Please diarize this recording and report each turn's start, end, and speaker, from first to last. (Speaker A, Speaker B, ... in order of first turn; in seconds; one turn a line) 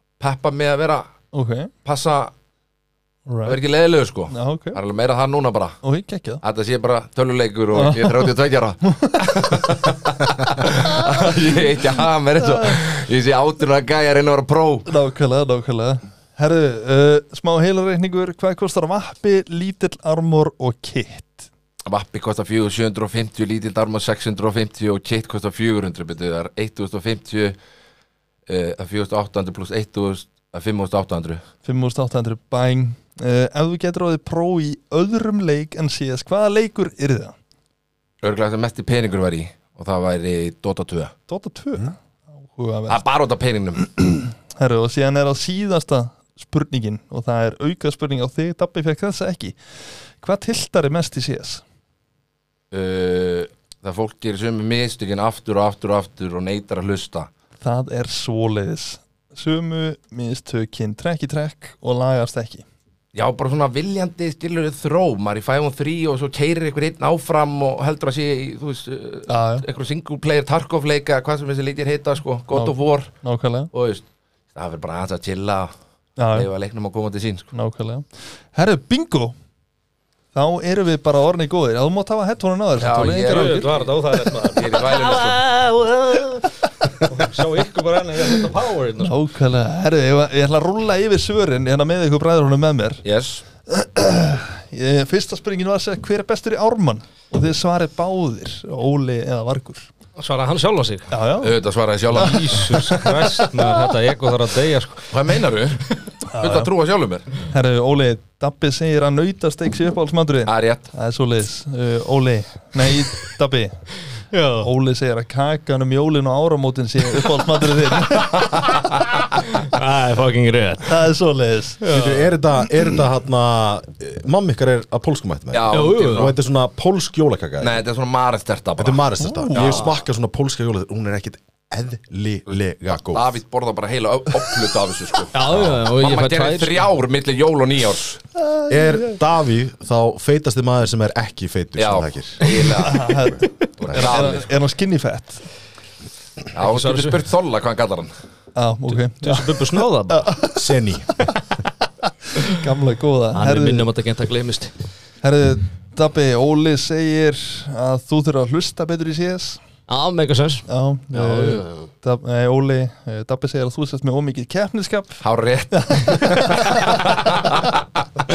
Speaker A: 0.2-1.1
Speaker B: 1.3-1.7
Speaker A: 1.9-2.3
Speaker B: 3.3-3.6
Speaker A: 3.5-5.8
Speaker B: 4.3-4.8
Speaker B: 5.8-6.4
Speaker A: 6.4-14.9
Speaker B: 7.8-8.3
Speaker B: 8.8-10.0
Speaker B: 10.6-12.8
Speaker B: 14.9-21.5
Speaker A: 21.9-27.6
Speaker A: 28.5-31.4
Speaker B: 31.6-37.4
Speaker A: 38.2-41.1
Speaker B: 41.3-43.0
Speaker A: 42.9-44.0
Speaker B: 44.1-49.6
Speaker B: 50.2-51.6
Speaker A: 52.7-57.3
Speaker B: 57.6-62.6
Speaker A: 63.1-73.1
Speaker B: 69.3-69.7
Speaker B: 72.5-73.7
Speaker A: 73.7-75.7
Speaker B: 76.2-76.5
Speaker A: 76.3-77.5
Speaker B: 77.5-79.3
Speaker B: 80.3-83.8
Speaker A: 82.8-85.4
Speaker C: 83.2-89.1
Speaker B: 89.0-93.0
Speaker A: 93.0-93.4
Speaker B: 93.7-99.9
Speaker C: 100.2-101.1
Speaker B: 101.1-101.6
Speaker A: 101.4-102.8
Speaker B: 102.1-103.7
Speaker C: 102.1-105.1
Speaker A: 105.1-107.3
Speaker B: 106.3-106.7
Speaker B: 107.5-113.9
Speaker A: 110.5-110.9
Speaker C: 114.3-114.7
Speaker B: 114.6-118.8
Speaker C: 119.6-121.0
Speaker B: 120.8-121.9
Speaker C: 121.8-122.3
Speaker D: 121.9-127.8
Speaker A: 125.5-126.4
Speaker C: 125.7-126.3
Speaker A: 127.6-129.0
Speaker D: 128.8-133.4
Speaker B: 129.2-129.8
Speaker C: 129.5-129.8
Speaker A: 129.6-129.9
Speaker A: 133.1-138.2
Speaker C: 135.3-136.8
Speaker D: 135.5-135.8
Speaker B: 138.4-139.2
Speaker D: 138.7-144.0
Speaker A: 141.8-143.2
Speaker B: 142.8-145.4
Speaker A: 143.8-144.5
Speaker A: 146.5-148.1
Speaker C: 146.6-147.2
Speaker B: 148.6-151.3
Speaker C: 148.9-150.4
Speaker D: 150.5-151.3
Speaker B: 152.4-153.9
Speaker C: 153.3-154.7
Speaker B: 155.2-159.6
Speaker C: 159.9-161.9
Speaker B: 160.7-167.7
Speaker A: 165.2-167.8